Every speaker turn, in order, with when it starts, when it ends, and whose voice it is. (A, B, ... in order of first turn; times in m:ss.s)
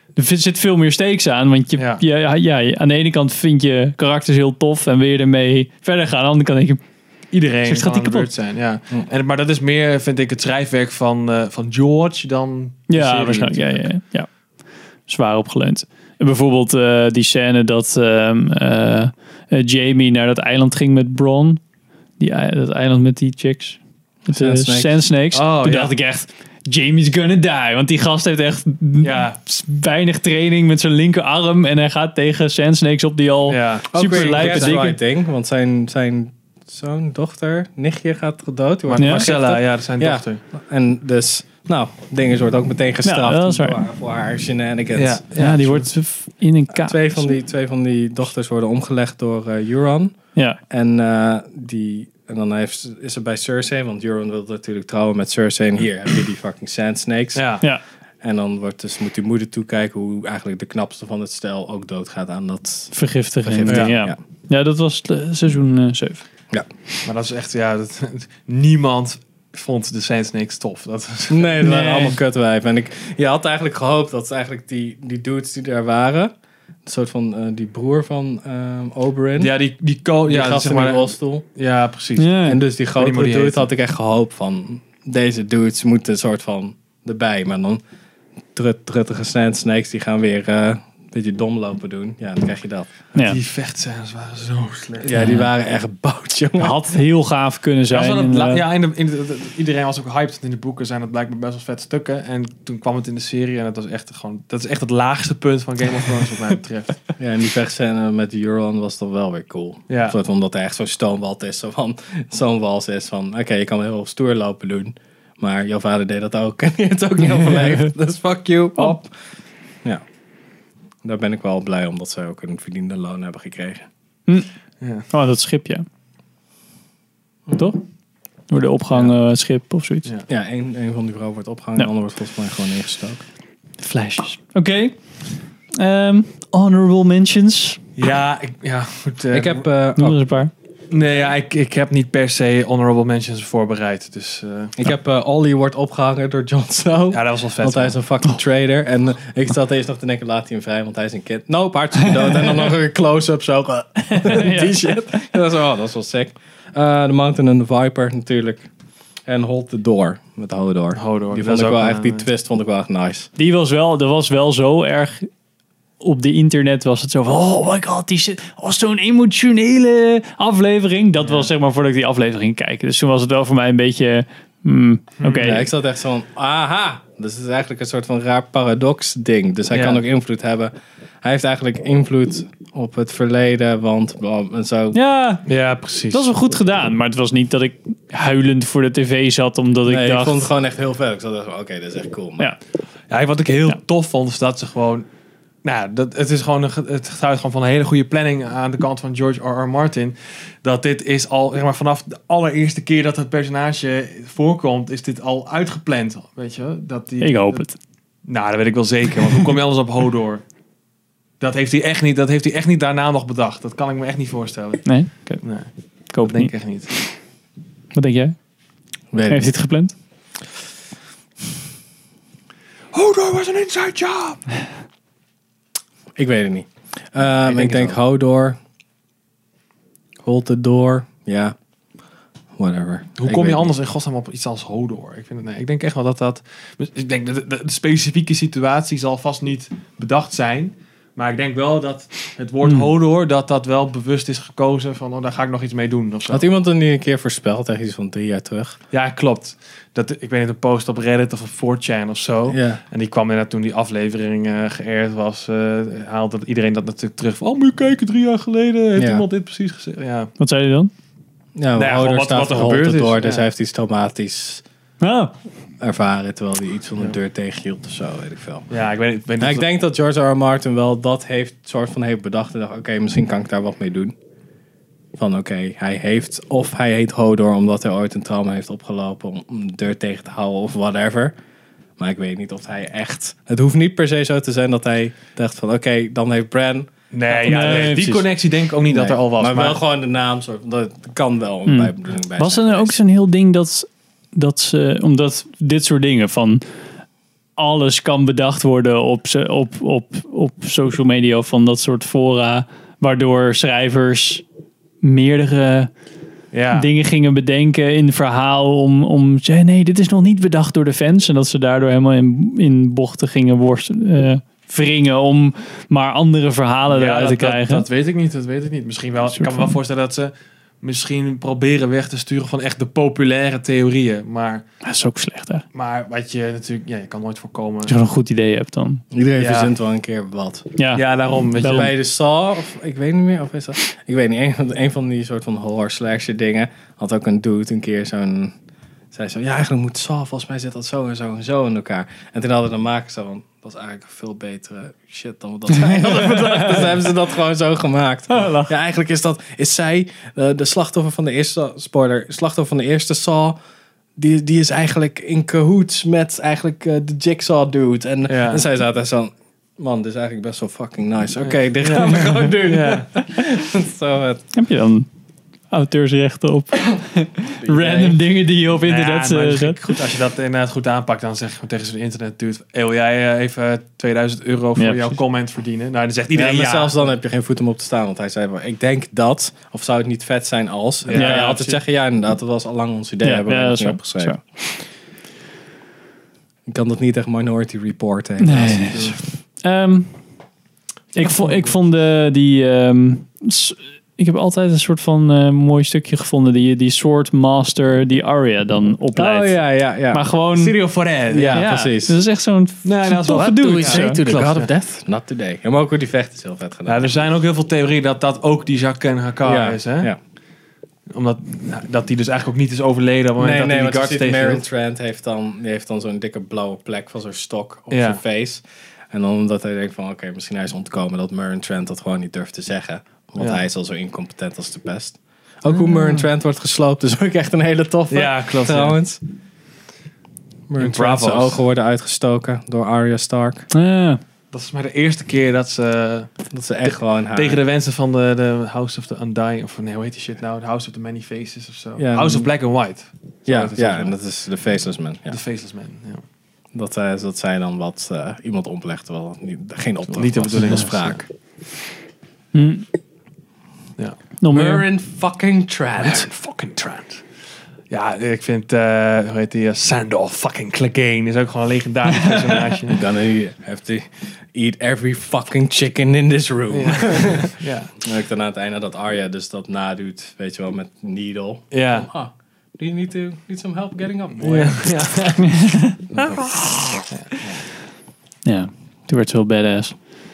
0:00.2-0:06.8 A
0:01.8-0:02.0 B
0:07.3-0:13.9 B
0:07.6-0:08.3 A
0:12.9-0:14.3 A
0:15.1-0:21.6 A
0:22.2-0:35.0 A
0:24.3-0:25.0 C
0:25.3-0:26.0 B
0:29.0-0:29.4 B
0:33.5-0:34.9 B
0:33.9-0:45.2 C
0:38.9-0:40.4 B
0:39.0-0:39.3 A
0:43.0-0:43.8 A
0:45.0-0:45.9 B
0:45.4-0:47.3 A
0:46.7-0:50.2 C
0:50.7-0:57.6 C
0:57.4-0:57.6 B
0:58.2-1:04.2 C
1:02.9-1:06.2 A
1:03.7-1:03.9 B
1:07.0-1:11.6 B
1:11.3-1:16.3 C
1:11.6-1:12.2 A
1:16.9-1:19.5 C
1:19.4-1:22.4 B
1:20.3-1:21.4 C
1:22.2-1:22.6 A
1:22.4-1:27.8 C
1:23.0-1:23.7 B
1:28.6-1:32.9 C
1:33.2-1:35.1 B
1:35.0-1:37.0 C
1:35.1-1:35.5 A
1:36.6-1:38.6 A
1:37.9-1:47.0 B
1:47.2-1:59.1 C
1:49.9-1:50.2 B
2:01.0-2:03.8 C
2:04.8-2:05.1 B
2:05.1-2:05.8 A
2:07.5-2:07.8 A
2:08.5-2:10.1 A
2:10.3-2:13.2 C
2:13.8-2:17.8 A
2:18.0-2:19.6 B
2:19.3-2:20.2 C
2:20.0-2:20.5 A
2:20.9-2:24.8 B
2:24.8-2:38.7 C
2:27.1-2:28.0 B
2:34.1-2:35.3 A
2:39.3-2:43.3 C
2:41.0-2:42.3 B
2:43.4-2:45.3 A
2:46.0-2:55.7 A
2:51.2-2:51.5 B
2:55.2-2:55.6 B
2:55.4-3:00.7 C
2:59.7-3:00.0 B
3:01.2-3:05.0 C
3:04.9-3:05.4 A
3:05.4-3:06.4 B
3:06.1-3:10.4 A
3:09.9-3:12.5 C
3:13.1-3:15.0 B
3:15.6-3:30.4 B
3:27.2-3:27.8 A
3:31.4-3:37.0 B
3:34.8-3:35.4 A
3:36.1-3:36.5 A
3:37.9-3:38.4 A
3:39.1-3:39.6 C
3:39.3-3:40.0 A
3:42.9-3:44.4 B
3:46.2-3:48.6 C
3:47.4-3:48.0 B
3:50.2-3:51.6 C
3:52.6-3:53.7 C
3:53.2-4:06.4 B
4:02.6-4:02.9 A
4:06.3-4:08.8 C
4:08.9-4:20.3 B
4:12.5-4:12.8 C
4:19.0-4:19.3 C
4:20.4-4:20.9 A
4:21.6-4:24.6 C
4:21.8-4:23.5 B
4:25.0-4:25.3 A
4:25.8-4:28.7 C
4:28.7-4:29.7 B
4:29.4-4:34.1 C
4:35.1-4:41.4 C
4:42.0-4:48.2 C
4:47.1-4:49.8 B
4:47.3-4:48.2 A
4:48.9-4:53.0 C
4:51.7-4:56.6 A
4:57.6-5:04.4 A
5:05.0-5:05.9 A
5:06.5-5:06.9 B
5:06.7-5:17.9 A
5:16.9-5:24.7 B
5:19.3-5:19.8 A
5:24.8-5:25.6 A
5:25.7-5:28.0 B
5:27.9-5:29.0 A
5:29.1-5:30.7 C
5:29.4-5:29.7 B
5:30.8-5:31.0 A
5:30.9-5:31.9 B
5:31.6-5:31.9 A
5:31.6-5:38.6 C
5:39.1-5:53.6 C
5:45.8-5:46.7 A
5:48.4-5:48.6 A
5:54.2-6:04.5 C
5:58.3-5:58.6 B
6:01.4-6:03.1 B
6:04.5-6:05.1 A
6:05.7-6:10.0 A
6:07.6-6:08.1 C
6:08.7-6:17.0 B
6:14.8-6:15.2 A
6:16.3-6:24.4 C
6:21.0-6:21.8 B
6:21.1-6:21.6 A
6:23.2-6:24.8 A
6:26.7-6:29.1 C
6:28.4-6:30.2 A
6:28.8-6:29.2 B
6:31.1-6:40.8 A
6:31.2-6:31.7 B
6:39.2-6:40.3 C
6:40.5-6:41.7 B
6:41.3-6:42.2 C
6:41.5-6:44.2 A
6:42.8-6:44.7 B
6:43.3-6:47.2 C
6:46.9-6:50.1 B
6:49.4-6:50.2 C
6:51.1-6:54.6 B
6:53.4-7:09.2 C
6:57.9-6:58.2 B
7:08.1-7:09.0 B
7:10.7-7:13.7 C
7:10.8-7:11.6 B
7:13.7-7:14.2 A
7:14.5-7:16.3 B
7:16.5-7:17.6 C
7:16.9-7:24.1 B
7:22.0-7:22.5 C
7:23.4-7:25.4 C
7:25.3-7:26.2 B
7:26.7-7:31.2 C
7:30.1-7:31.2 B
7:32.5-7:32.9 A
7:34.4-7:34.8 A
7:34.5-7:36.3 C
7:36.0-7:37.3 B
7:37.9-7:43.0 B
7:42.9-7:47.5 C
7:46.7-7:48.0 B
7:48.0-7:55.1 C
7:51.7-7:52.1 B
7:54.4-7:56.4 B
7:55.5-7:56.0 A
7:56.1-7:57.6 C
7:57.1-7:57.5 B
7:58.4-8:00.0 A